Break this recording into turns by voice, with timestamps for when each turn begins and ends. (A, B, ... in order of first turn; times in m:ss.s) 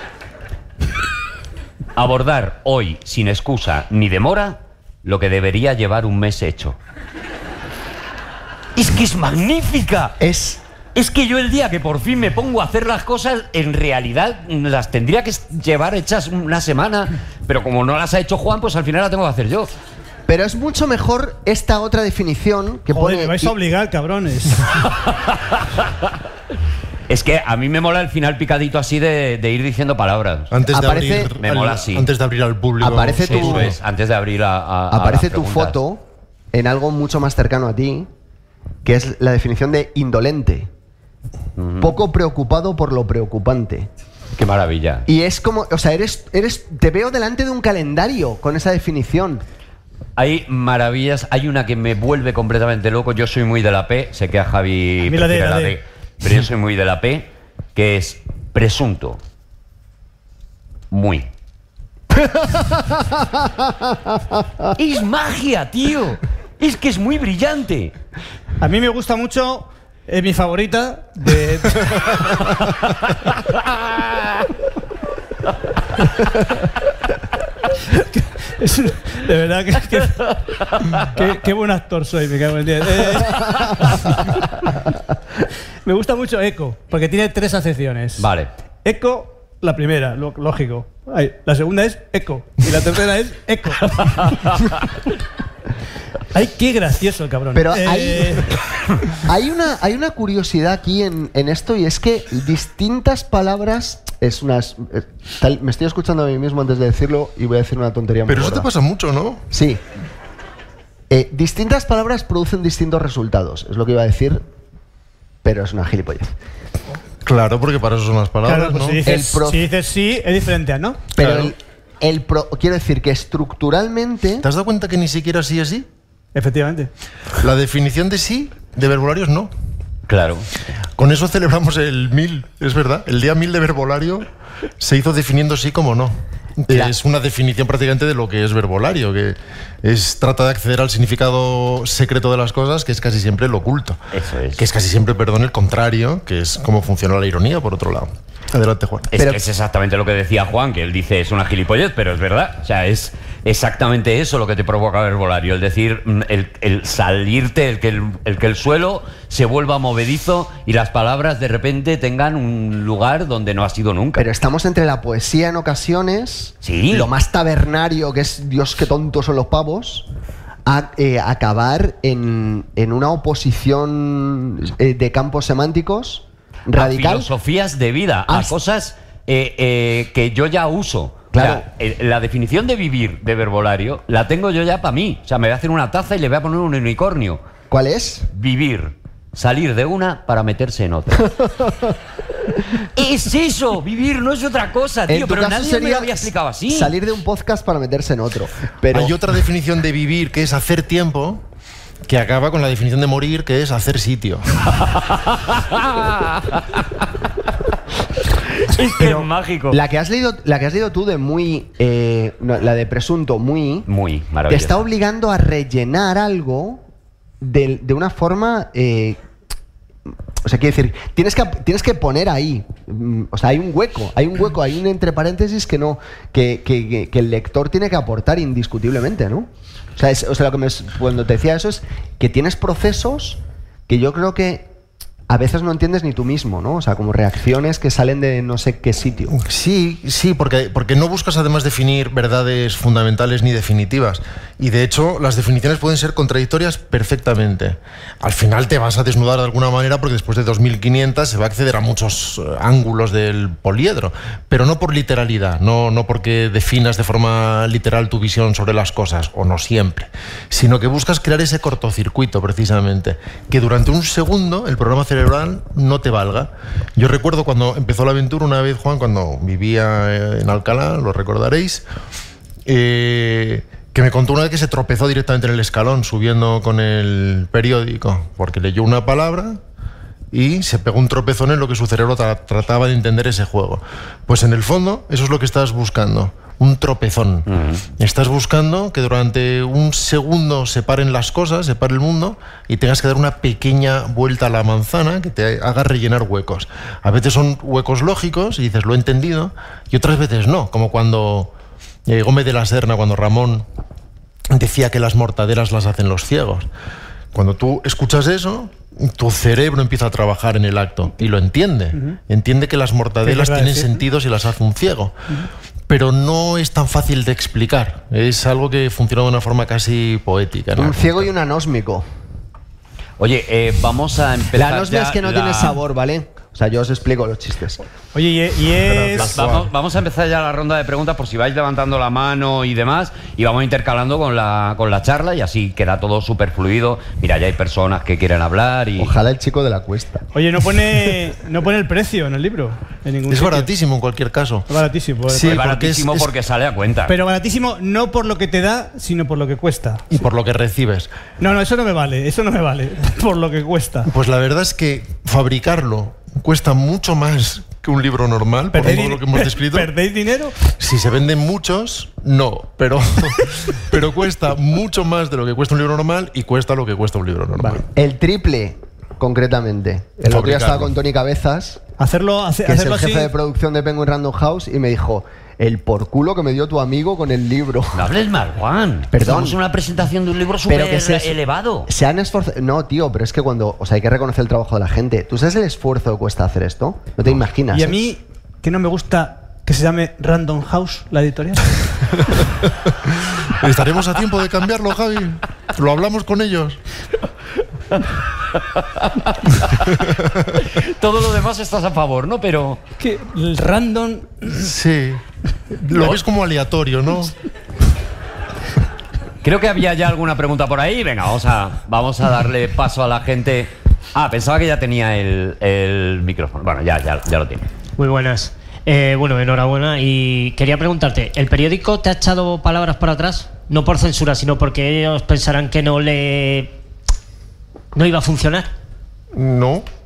0:02.0-0:06.8 A
0:08.8-0:10.2 A
0:10.2-0:10.6 B
0:11.0-0:19.7 A
0:20.3-0:23.6 B
0:22.9-0:24.8 C
0:25.1-0:25.9 A
0:27.1-0:30.5 A
0:30.5-0:33.8 D
0:30.7-0:31.3 B
0:31.4-0:32.1 A
0:32.8-0:33.8 B
0:33.2-0:35.8 A
0:34.9-0:38.1 B
0:38.8-0:40.7 B
0:41.6-0:41.9 A
0:41.8-0:43.9 B
0:44.4-0:45.1 A
0:45.1-0:49.4 B
0:50.2-0:59.2 A
0:55.1-0:55.8 C
1:00.9-1:01.3 A
1:02.2-1:04.5 B
1:04.8-1:07.9 A
1:08.6-1:12.4 C
1:17.9-1:24.4 C
1:25.8-1:28.2 C
1:28.2-1:28.5 A
1:28.8-1:34.8 C
1:34.0-1:34.5 A
1:36.3-1:38.5 C
1:37.6-1:38.6 B
1:39.1-1:48.7 B
1:48.3-1:49.5 D
1:49.5-1:49.8 B
1:51.1-1:54.4 B
1:55.4-1:56.3 B
1:57.2-1:59.1 D
1:58.4-2:01.1 C
1:59.0-1:59.7 B
2:01.1-2:04.5 B
2:01.2-2:01.5 D
2:04.4-2:05.9 D
2:06.4-2:06.9 C
2:07.4-2:09.5 D
2:10.1-2:10.5 A
2:11.0-2:14.3 D
2:14.8-2:24.0 D
2:24.1-2:24.7 A
2:24.6-2:29.1 D
2:29.1-2:44.3 A
2:29.2-2:29.4 B
2:44.2-2:50.1 B
2:46.6-2:47.1 A
2:50.7-2:57.3 B
2:56.8-3:07.4 A
3:01.3-3:01.6 B
3:07.7-3:08.3 B
3:08.3-3:11.3 A
3:11.3-3:12.0 B
3:12.9-3:16.9 A
3:15.1-3:19.1 B
3:18.9-3:21.4 D
3:22.0-3:24.4 D
3:24.9-3:26.8 A
3:28.6-3:29.8 A
3:29.0-3:33.9 B
3:33.9-3:34.8 A
3:34.5-3:36.8 B
3:37.4-3:39.2 B
3:40.4-3:54.7 B
3:55.3-3:59.3 B
3:59.3-4:31.8 D
4:32.6-4:39.6 D
4:40.3-4:47.5 D
4:47.5-4:47.8 A
4:48.0-5:01.5 D
5:02.1-5:03.7 D
5:04.5-5:06.7 D
5:07.3-5:15.2 D
5:13.2-5:14.0 C
5:15.9-5:21.3 D
5:20.8-5:22.0 B
5:23.2-5:25.8 A
5:24.6-5:27.8 B
5:28.2-5:29.4 C
5:28.8-5:29.7 D
5:29.2-5:39.1 A
5:39.0-5:40.2 B
5:40.4-5:43.7 C
5:43.3-5:44.7 D
5:44.7-5:45.6 C
5:45.3-5:46.3 D
5:45.5-5:47.2 A
5:47.1-5:50.1 C
5:50.1-5:51.1 D
5:51.4-5:54.1 C
5:54.1-5:59.9 D
5:58.7-6:00.6 C
6:00.7-6:07.8 D
6:07.9-6:11.8 B
6:10.2-6:11.0 D
6:12.0-6:13.3 C
6:12.7-6:18.1 B
6:17.9-6:21.9 A
6:19.1-6:19.6 B
6:20.7-6:28.0 B
6:27.7-6:32.2 C
6:32.9-6:36.8 D
6:38.6-6:40.0 A
6:40.0-6:40.4 D
6:40.5-6:42.8 A
6:43.0-6:44.6 C
6:44.5-6:47.3 D
6:49.4-6:57.7 A
6:58.0-7:06.8 E
7:08.0-7:08.7 E
7:09.3-7:09.9 D